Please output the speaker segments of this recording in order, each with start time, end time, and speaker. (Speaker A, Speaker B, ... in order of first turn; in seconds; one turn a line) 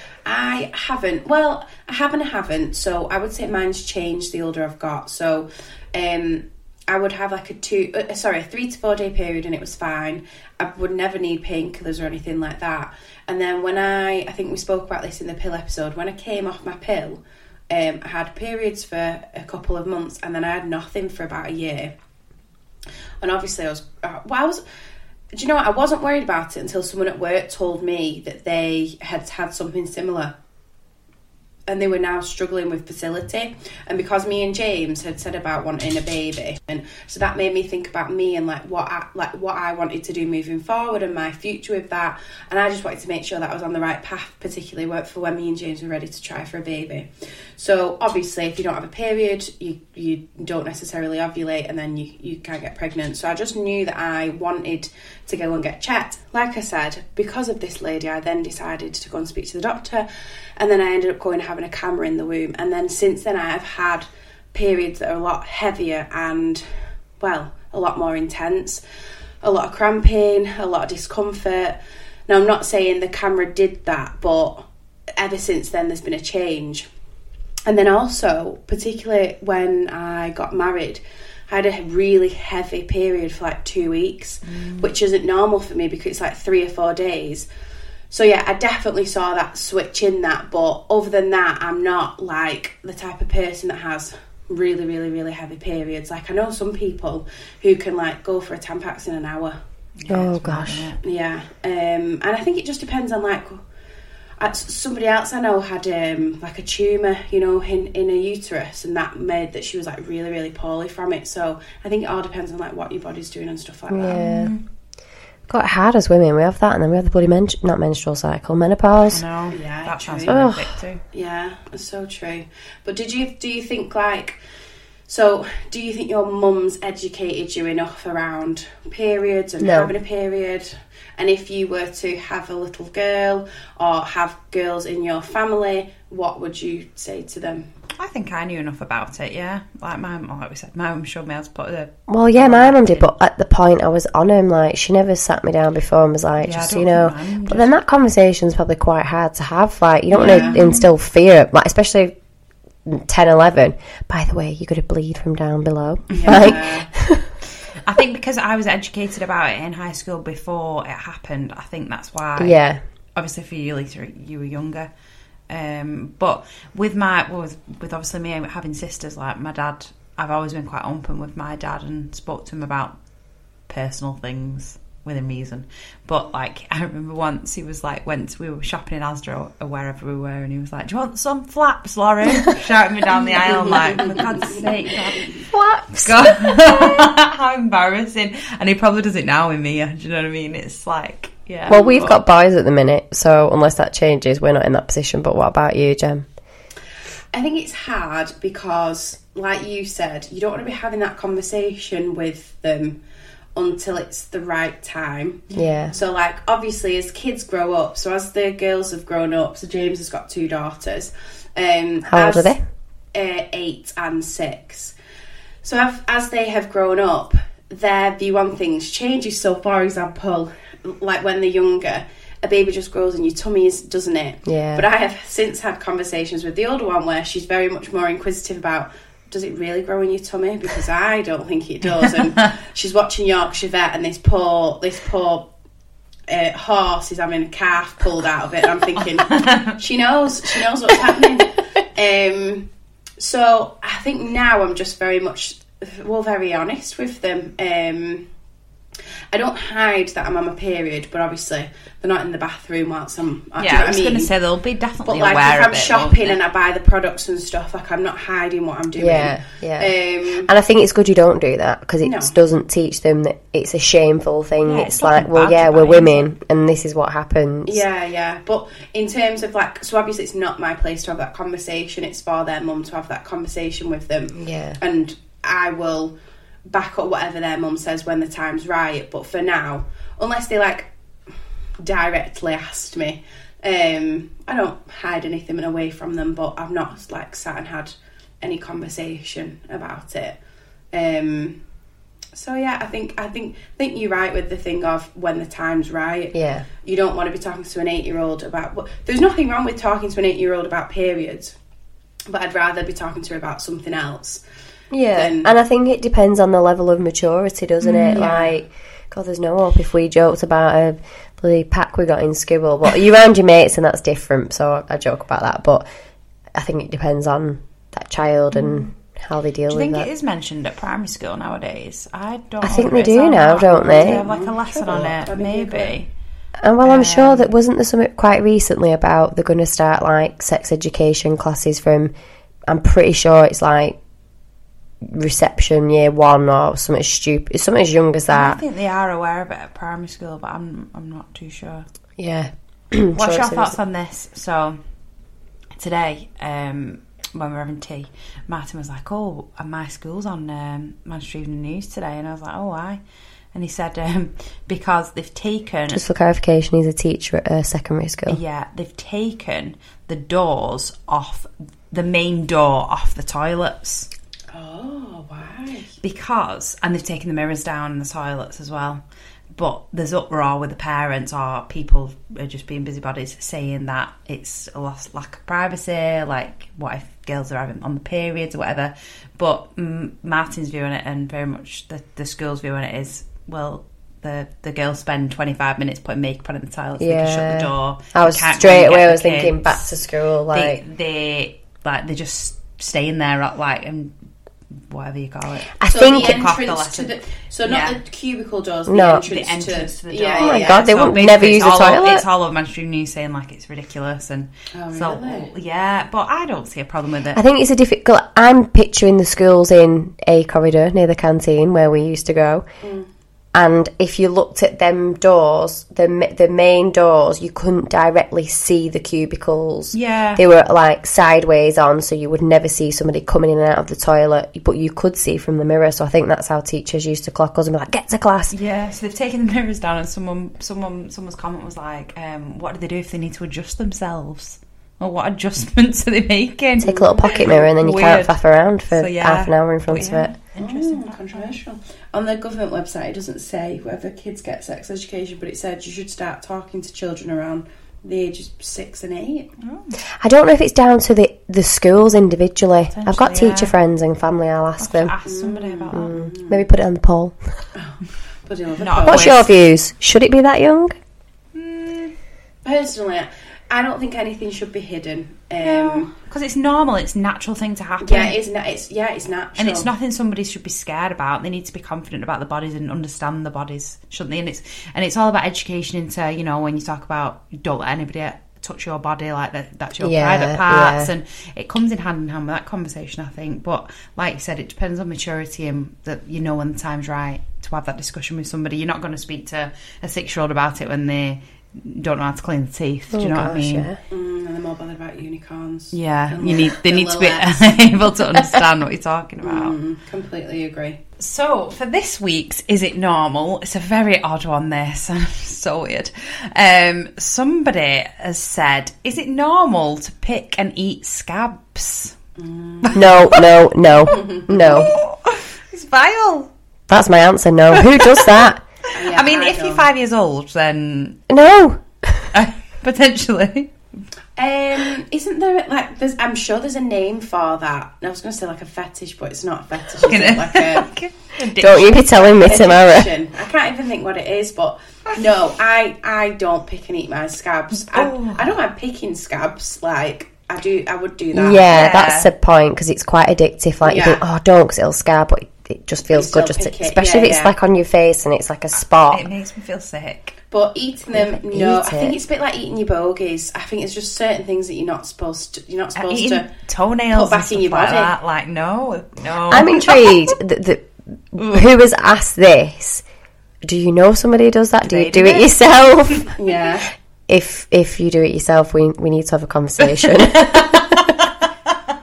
Speaker A: 0.2-21.9
Speaker A: 23.2-24.6
Speaker A: 25.3-30.3
Speaker A: 31.7-66.7
Speaker A: 67.2-68.8
Speaker A: 69.4-74.7
Speaker A: 75.2-76.9
Speaker A: 77.7-87.5
Speaker B: 84.5-84.9
Speaker A: 88.1-99.6
Speaker B: 100.0-101.0
Speaker C: 100.1-100.9
Speaker A: 101.0-103.6
Speaker A: 104.4-114.2
Speaker C: 113.9-114.5
Speaker B: 114.1-114.6
Speaker C: 115.5-119.2
Speaker B: 119.0-121.0
Speaker A: 119.5-120.4
Speaker C: 120.3-120.8
Speaker A: 121.1-124.4
Speaker A: 125.1-137.7
Speaker C: 129.6-129.9
Speaker B: 138.0-143.1
Speaker C: 142.1-152.1
Speaker B: 146.4-147.7
Speaker A: 150.1-150.6
Speaker B: 150.2-150.8
Speaker C: 152.8-157.3
Speaker A: 156.1-156.9
Speaker B: 156.1-156.5
Speaker B: 157.8-162.6
Speaker C: 162.4-162.8
Speaker B: 163.1-164.9
Speaker B: 165.5-172.9
Speaker B: 173.7-185.4
Speaker A: 183.7-184.6
Speaker C: 185.4-187.0
Speaker B: 185.9-192.2
Speaker C: 191.7-196.2
Speaker A: 191.7-192.1
Speaker A: 197.3-203.0
Speaker A: 203.6-212.5
Speaker C: 205.5-205.9
Speaker C: 212.1-212.6
Speaker A: 213.1-214.9
Speaker A: 215.6-235.5
Speaker C: 224.4-224.8
Speaker A: 236.3-242.7
Speaker B: 239.2-239.8
Speaker A: 243.2-248.2
Speaker A: 249.3-254.3
Speaker B: 253.6-256.4
Speaker A: 255.1-260.5
Speaker C: 259.0-259.9
Speaker C: 260.4-267.8
Speaker A: 262.0-262.3
Speaker B: 264.6-266.2
Speaker A: 267.6-276.1
Speaker C: 274.4-274.8
Speaker A: 276.7-280.9
Speaker A: 281.8-290.4
Speaker A: 290.9-291.6
Speaker A: 292.3-301.5
Speaker C: 296.3-296.6
Speaker A: 302.3-304.4
Speaker C: 304.9-315.8
Speaker A: 305.1-305.5
Speaker B: 307.8-308.2
Speaker A: 308.1-308.5
Speaker C: 316.5-320.1
Speaker B: 318.5-318.8
Speaker B: 319.7-326.1
Speaker C: 322.6-324.2
Speaker A: 323.7-326.0
Speaker C: 326.6-332.1
Speaker B: 326.8-327.5
Speaker C: 332.7-334.0
Speaker C: 335.0-338.6
Speaker B: 338.3-341.9
Speaker C: 342.2-343.8
Speaker B: 343.1-344.8
Speaker B: 345.8-353.0
Speaker B: 353.5-356.0
Speaker C: 355.9-358.4
Speaker B: 358.3-364.1
Speaker A: 364.5-365.9
Speaker B: 366.0-369.0
Speaker B: 369.5-389.8
Speaker C: 387.0-390.8
Speaker B: 390.5-394.1
Speaker B: 394.9-397.1
Speaker C: 395.8-396.4
Speaker A: 395.9-400.9
Speaker B: 397.6-398.0
Speaker C: 398.9-399.2
Speaker B: 399.2-407.4
Speaker C: 400.4-402.2
Speaker A: 404.7-405.5
Speaker C: 407.3-412.6
Speaker A: 412.8-413.1
Speaker C: 413.5-428.5
Speaker B: 419.9-420.4
Speaker B: 428.5-438.4
Speaker C: 436.8-440.3
Speaker A: 436.8-437.6
Speaker B: 438.9-441.6
Speaker A: 440.6-449.5
Speaker B: 449.6-450.0
Speaker C: 450.2-455.1
Speaker B: 452.9-453.7
Speaker B: 454.8-456.1
Speaker A: 455.2-456.6
Speaker C: 455.9-457.4
Speaker A: 457.8-459.3
Speaker B: 458.8-459.5
Speaker C: 459.0-460.9
Speaker B: 461.5-462.1
Speaker A: 462.6-466.1
Speaker B: 465.6-468.4
Speaker A: 468.0-469.9
Speaker B: 469.6-493.9
Speaker C: 480.0-481.1
Speaker C: 493.1-494.0
Speaker A: 494.1-497.7
Speaker B: 495.9-499.8
Speaker A: 499.4-501.0
Speaker B: 501.2-512.1
Speaker A: 512.4-513.4
Speaker B: 512.9-513.5
Speaker C: 512.9-514.9
Speaker A: 514.0-514.9
Speaker B: 514.6-516.5
Speaker C: 516.9-518.6
Speaker B: 517.7-521.2
Speaker A: 518.9-519.9
Speaker C: 521.3-522.3
Speaker B: 522.3-523.7
Speaker A: 524.4-530.9
Speaker B: 530.0-532.0
Speaker C: 531.6-533.1
Speaker A: 532.1-541.9
Speaker B: 537.8-538.5
Speaker C: 541.3-549.2
Speaker B: 541.6-542.3
Speaker A: 543.8-544.2
Speaker A: 546.1-547.5
Speaker B: 549.1-550.4
Speaker A: 550.5-556.5
Speaker C: 551.1-552.2
Speaker B: 556.0-560.3
Speaker A: 557.1-558.1
Speaker C: 559.5-563.0
Speaker C: 563.6-566.3
Speaker B: 564.8-565.5
Speaker A: 566.4-566.9
Speaker C: 567.3-571.0
Speaker B: 569.8-571.2